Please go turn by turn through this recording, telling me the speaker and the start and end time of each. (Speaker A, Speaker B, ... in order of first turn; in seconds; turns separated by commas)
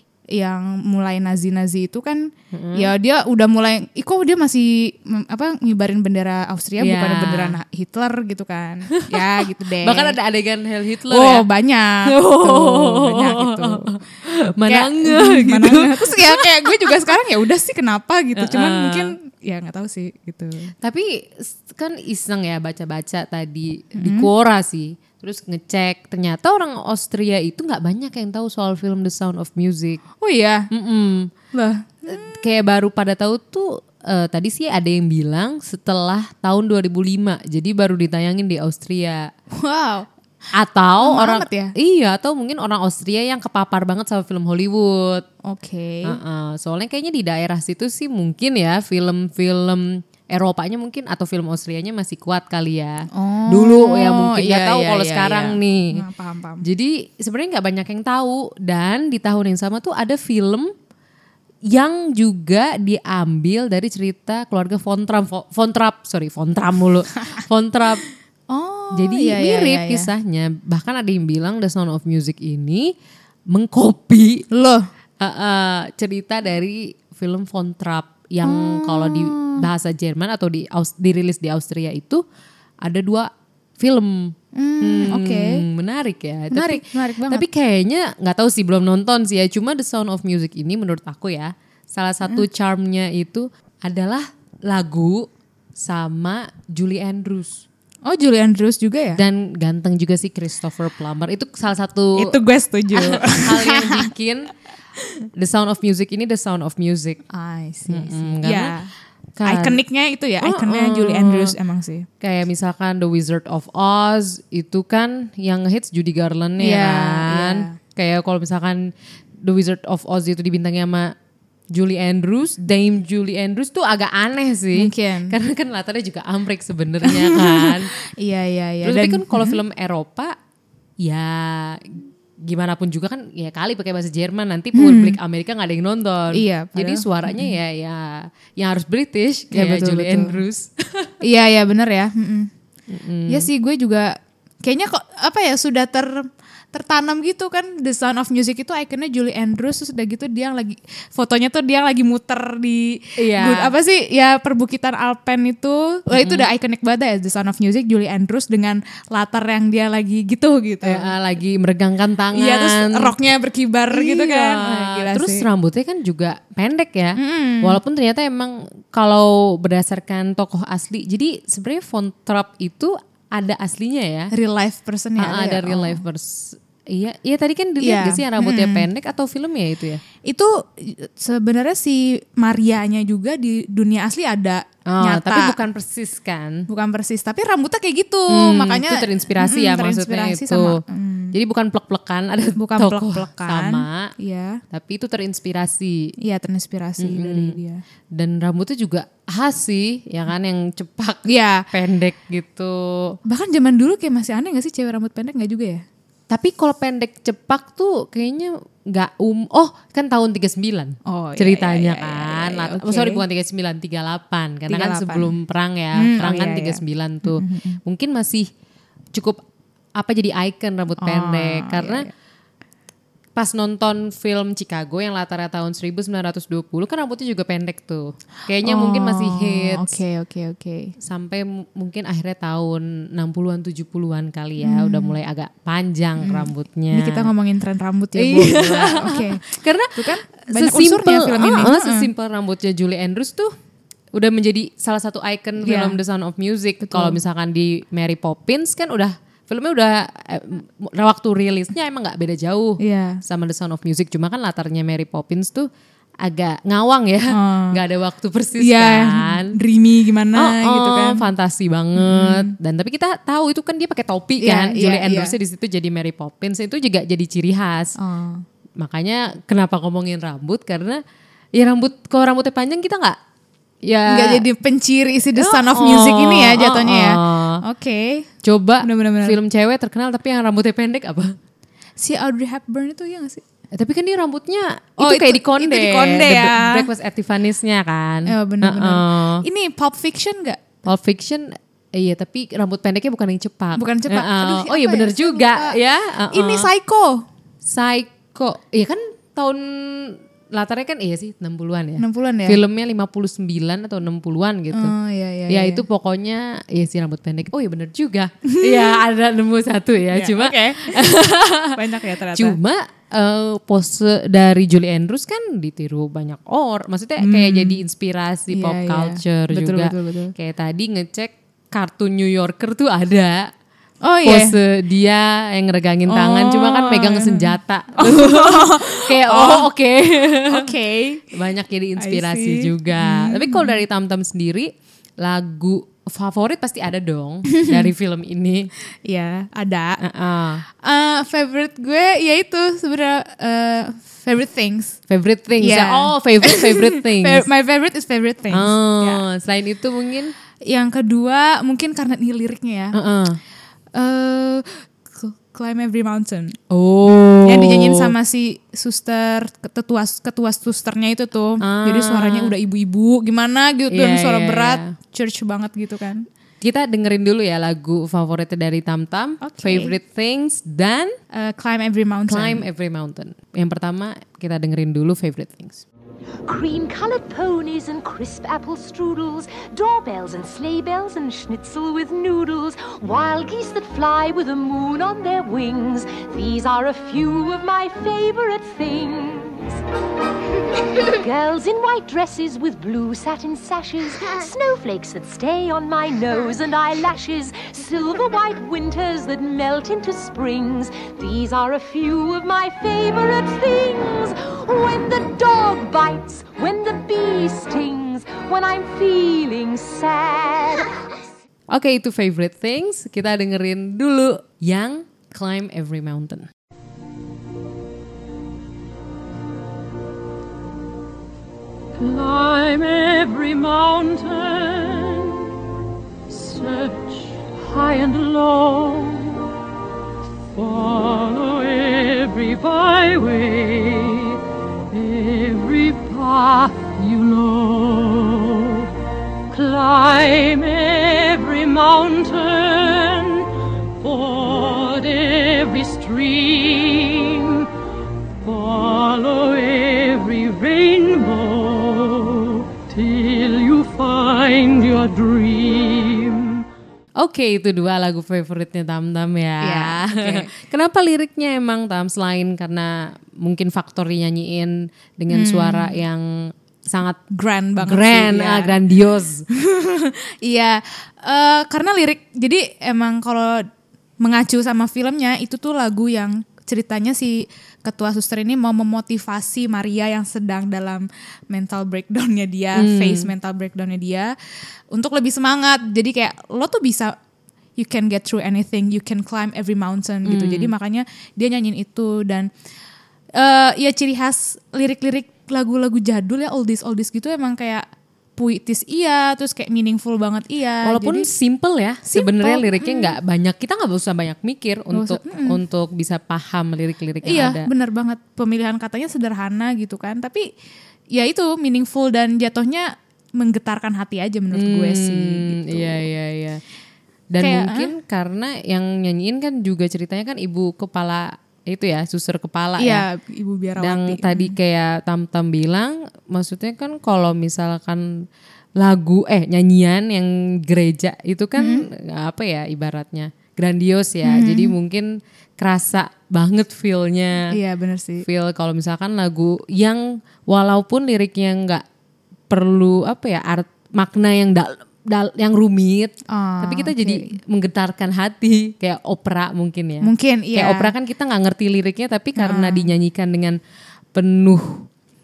Speaker A: 0.3-10.2, Speaker B: 2.5-2.9, Speaker B: 6.8-7.6, Speaker B: 8.9-11.5, Speaker A: 11.1-13.9, Speaker B: 12.1-16.9, Speaker A: 14.7-20.7, Speaker B: 18.4-19.1, Speaker B: 20.8-30.0, Speaker A: 24.0-24.3, Speaker A: 30.2-30.7, Speaker B: 30.7-31.3, Speaker A: 31.5-32.4, Speaker B: 32.1-39.3, Speaker A: 39.5-40.1, Speaker B: 40.5-45.2, Speaker A: 41.0-41.7, Speaker A: 45.5-46.2, Speaker B: 46.0-56.0, Speaker A: 53.1-56.6, Speaker B: 56.6-60.7, Speaker B: 61.7-68.0, Speaker A: 68.5-70.1, Speaker B: 68.9-72.9, Speaker B: 73.5-74.5, Speaker A: 74.5-74.9, Speaker B: 75.2-82.2, Speaker A: 78.4-79.6, Speaker B: 82.8-97.6, Speaker A: 84.5-85.6, Speaker A: 86.5-87.5, Speaker A: 98.0-99.2, Speaker B: 99.2-102.3, Speaker A: 102.2-104.1, Speaker B: 102.9-104.5, Speaker B: 105.4-107.2, Speaker A: 107.3-108.9, Speaker B: 107.9-108.7, Speaker B: 109.4-109.8, Speaker A: 109.5-112.1, Speaker B: 110.4-111.5, Speaker B: 112.2-118.9, Speaker A: 116.6-117.8, Speaker B: 119.4-121.1, Speaker B: 121.7-127.9, Speaker A: 124.7-125.4, Speaker A: 127.0-129.6, Speaker B: 128.8-130.4, Speaker B: 131.0-141.2, Speaker A: 134.7-135.2, Speaker A: 136.3-137.6, Speaker A: 139.5-140.4, Speaker A: 141.2-142.5, Speaker B: 142.9-143.5, Speaker A: 143.3-161.1, Speaker B: 153.2-153.7, Speaker B: 156.1-156.5, Speaker B: 160.8-163.1, Speaker A: 162.3-165.5, Speaker B: 163.9-174.3, Speaker A: 167.2-167.8, Speaker A: 174.3-176.0, Speaker B: 175.2-180.0, Speaker A: 177.8-178.9, Speaker A: 180.2-185.6, Speaker B: 184.9-186.7, Speaker A: 186.7-191.3, Speaker B: 188.3-190.8, Speaker B: 191.3-194.1, Speaker A: 192.6-194.6, Speaker B: 194.7-196.1, Speaker A: 196.2-197.8, Speaker B: 197.0-197.6, Speaker B: 198.1-203.2, Speaker A: 201.3-201.7, Speaker A: 203.3-205.8, Speaker B: 206.3-218.5, Speaker A: 211.1-213.2, Speaker A: 214.7-215.3, Speaker A: 215.9-217.8, Speaker B: 219.2-219.4, Speaker B: 220.0-222.1, Speaker A: 221.0-222.1, Speaker B: 223.4-230.0, Speaker A: 228.6-230.9, Speaker B: 231.0-237.3, Speaker A: 234.6-235.2, Speaker A: 236.2-239.4, Speaker B: 238.2-243.5, Speaker A: 240.0-242.1, Speaker B: 244.1-255.7, Speaker A: 245.6-246.0, Speaker A: 246.8-247.2, Speaker A: 252.8-253.2, Speaker B: 256.2-259.5, Speaker A: 257.3-257.8, Speaker A: 258.6-261.2, Speaker B: 260.4-268.0, Speaker A: 262.0-262.5, Speaker A: 264.4-265.4, Speaker A: 268.0-268.4, Speaker B: 268.8-271.0, Speaker B: 271.6-273.2, Speaker B: 273.9-274.4, Speaker A: 274.1-278.3, Speaker B: 275.4-277.6, Speaker B: 278.4-281.4, Speaker A: 278.8-279.4, Speaker A: 282.0-283.4, Speaker B: 283.8-289.4, Speaker A: 285.0-286.9, Speaker A: 288.3-290.6, Speaker B: 290.8-296.7, Speaker A: 293.8-295.8, Speaker A: 296.3-297.2, Speaker B: 297.6-304.9, Speaker A: 302.0-302.6, Speaker A: 304.7-305.9, Speaker B: 305.5-311.8, Speaker A: 308.5-309.0, Speaker A: 310.1-312.6, Speaker B: 312.3-323.5, Speaker A: 317.2-317.8, Speaker A: 318.5-320.3, Speaker A: 324.0-324.6, Speaker B: 324.2-330.7, Speaker A: 326.1-329.7, Speaker A: 330.5-331.2, Speaker B: 331.3-338.7, Speaker A: 332.0-333.7, Speaker A: 339.1-340.0, Speaker B: 340.0-340.6, Speaker A: 340.7-345.0, Speaker B: 345.1-347.4, Speaker A: 345.6-349.2, Speaker B: 348.5-350.3, Speaker A: 350.7-353.0, Speaker B: 352.9-353.4, Speaker A: 353.9-356.6, Speaker B: 356.7-358.1, Speaker A: 357.4-366.3, Speaker B: 361.6-362.5, Speaker B: 363.9-364.9, Speaker B: 366.6-371.1, Speaker A: 369.4-369.9, Speaker A: 371.3-372.6, Speaker B: 372.3-375.9, Speaker C: 376.4-389.8, Speaker C: 391.0-411.0, Speaker B: 411.7-416.5, Speaker D: 422.0-425.5, Speaker D: 426.3-429.5, Speaker D: 430.5-434.4, Speaker D: 434.9-438.9, Speaker D: 439.5-447.7, Speaker D: 448.4-456.6, Speaker B: 457.2-467.2, Speaker A: 459.6-460.5, Speaker A: 465.3-466.0, Speaker A: 467.3-468.8, Speaker B: 467.8-469.4, Speaker A: 469.6-473.6, Speaker A: 474.2-484.3, Speaker B: 482.8-483.3, Speaker A: 484.9-487.2, Speaker A: 487.8-492.5, Speaker B: 490.3-490.7, Speaker A: 493.4-497.9, Speaker A: 498.4-501.3, Speaker B: 500.8-507.7, Speaker A: 502.1-503.1, Speaker A: 504.9-505.6, Speaker A: 507.2-510.5, Speaker A: 511.1-516.0, Speaker B: 514.5-516.6, Speaker B: 517.3-523.0, Speaker A: 517.4-517.9, Speaker A: 522.8-524.5, Speaker B: 523.8-528.2, Speaker B: 528.8-537.6, Speaker A: 531.6-531.8, Speaker A: 534.2-534.7, Speaker A: 537.5-538.3, Speaker B: 538.2-541.8, Speaker B: 542.5-553.6, Speaker A: 546.3-547.3, Speaker A: 550.0-550.9, Speaker A: 552.4-552.9, Speaker B: 554.1-554.9